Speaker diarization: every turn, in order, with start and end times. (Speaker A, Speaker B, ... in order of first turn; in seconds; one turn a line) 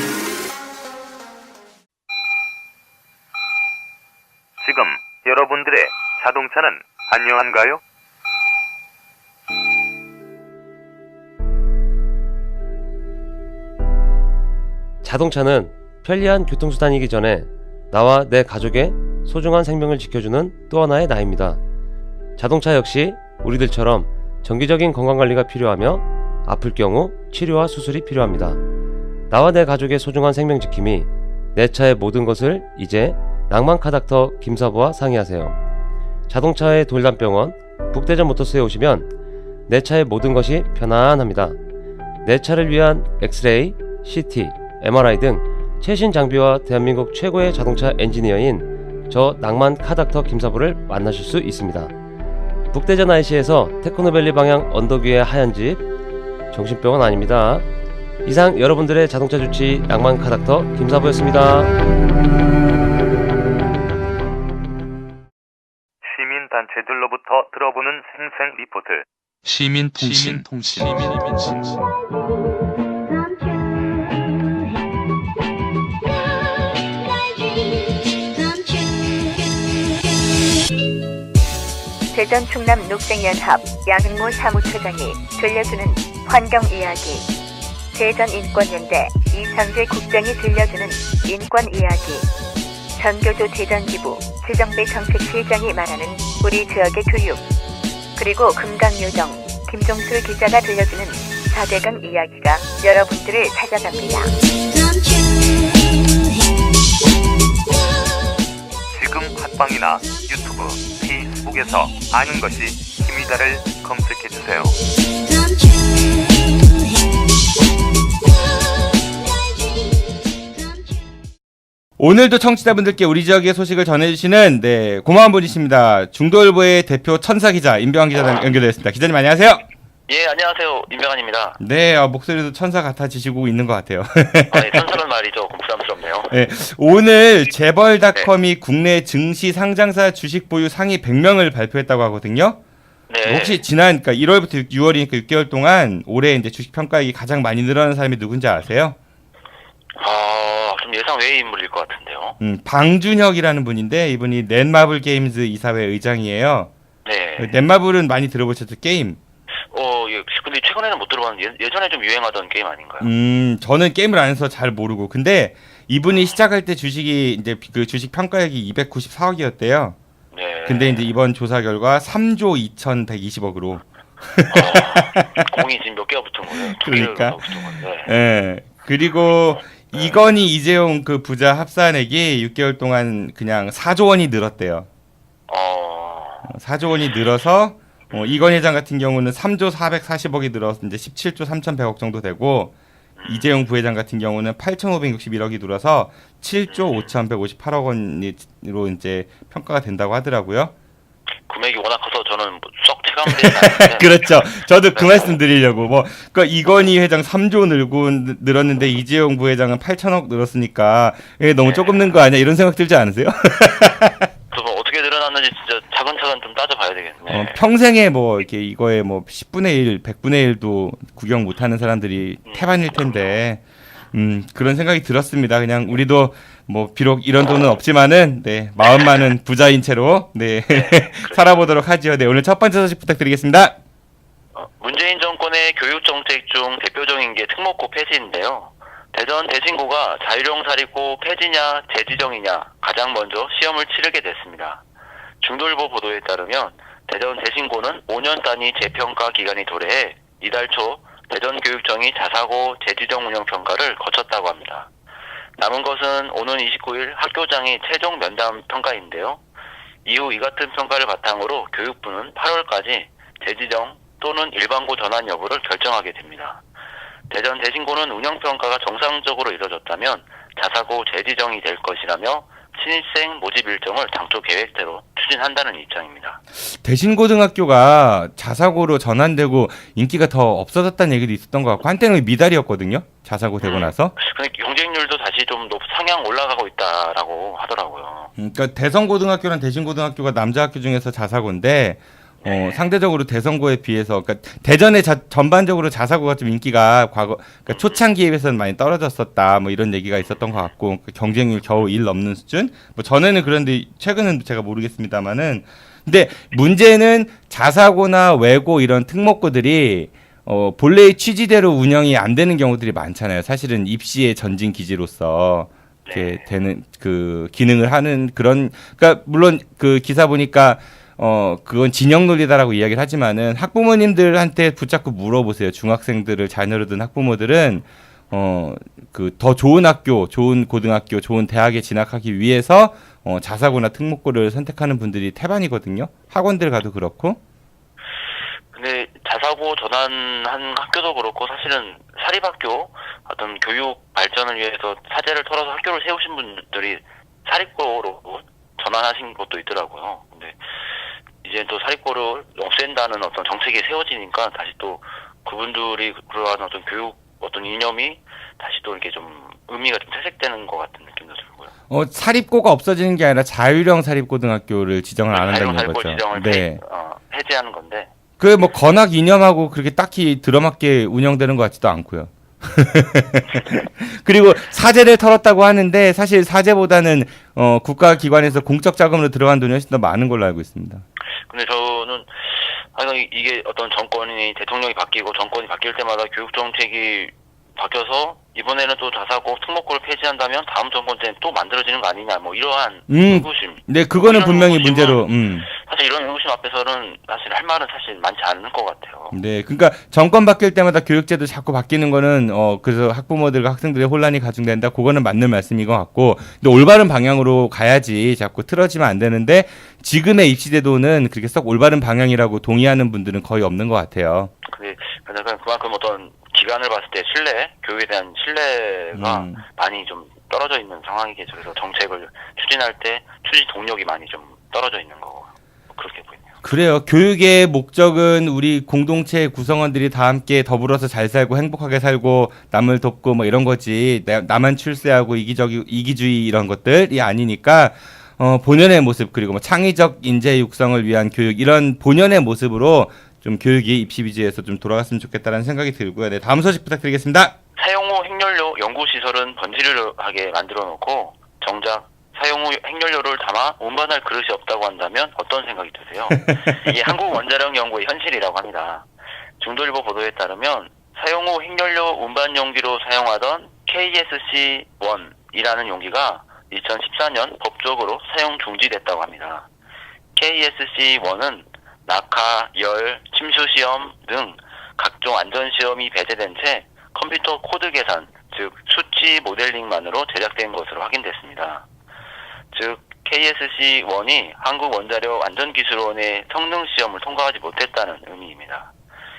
Speaker A: 4.6-7.8
Speaker B: 15.0-21.6
Speaker B: 22.4-28.6
Speaker B: 29.3-35.6
Speaker B: 36.3-39.1
Speaker B: 39.7-41.6
Speaker B: 42.2-51.9
Speaker B: 52.7-55.8
Speaker B: 56.5-57.6
Speaker B: 58.2-61.7
Speaker A: 66.0-69.0
Speaker C: 69.4-71.8
Speaker D: 82.1-87.3
Speaker D: 87.9-92.3
Speaker D: 93.0-97.4
Speaker D: 98.2-104.3
Speaker A: 108.9-114.8
Speaker E: 122.0-129.6
Speaker F: 130.1-131.6
Speaker E: 131.6-134.9
Speaker F: 134.5-136.3
Speaker E: 136.3-142.6
Speaker F: 143.1-143.6
Speaker E: 143.2-149.0
Speaker F: 150.0-152.4
Speaker E: 152.4-156.7
Speaker F: 157.0-157.6
Speaker E: 157.4-159.2
Speaker F: 159.7-163.1
Speaker E: 163.0-170.0
Speaker F: 170.3-171.1
Speaker E: 170.6-175.6
Speaker F: 174.5-178.1
Speaker E: 176.5-184.9
Speaker F: 179.9-180.2
Speaker F: 185.5-186.5
Speaker E: 186.4-192.7
Speaker F: 188.1-188.5
Speaker F: 193.2-193.5
Speaker E: 193.2-200.7
Speaker F: 196.7-197.1
Speaker F: 201.5-205.3
Speaker E: 203.2-214.2
Speaker F: 211.6-212.1
Speaker F: 214.5-217.6
Speaker E: 217.3-233.8
Speaker F: 222.4-223.3
Speaker F: 228.8-229.1
Speaker F: 230.7-231.7
Speaker F: 234.5-244.8
Speaker F: 245.4-254.9
Speaker F: 255.6-259.4
Speaker F: 260.0-266.6
Speaker F: 267.3-276.4
Speaker E: 276.6-284.1
Speaker F: 283.6-288.3
Speaker E: 288.4-337.4
Speaker F: 292.4-292.8
Speaker F: 297.7-298.0
Speaker F: 316.1-316.4
Speaker F: 338.7-350.6
Speaker F: 351.4-361.7
Speaker E: 361.9-366.8
Speaker F: 365.3-368.1
Speaker E: 368.4-381.0
Speaker F: 381.5-399.4
Speaker E: 393.1-395.7
Speaker E: 399.3-414.5
Speaker F: 414.6-426.6
Speaker E: 419.1-419.6
Speaker E: 426.6-447.5
Speaker F: 447.8-459.1
Speaker E: 456.3-456.9
Speaker F: 459.6-469.7
Speaker F: 470.3-481.9
Speaker F: 482.7-488.9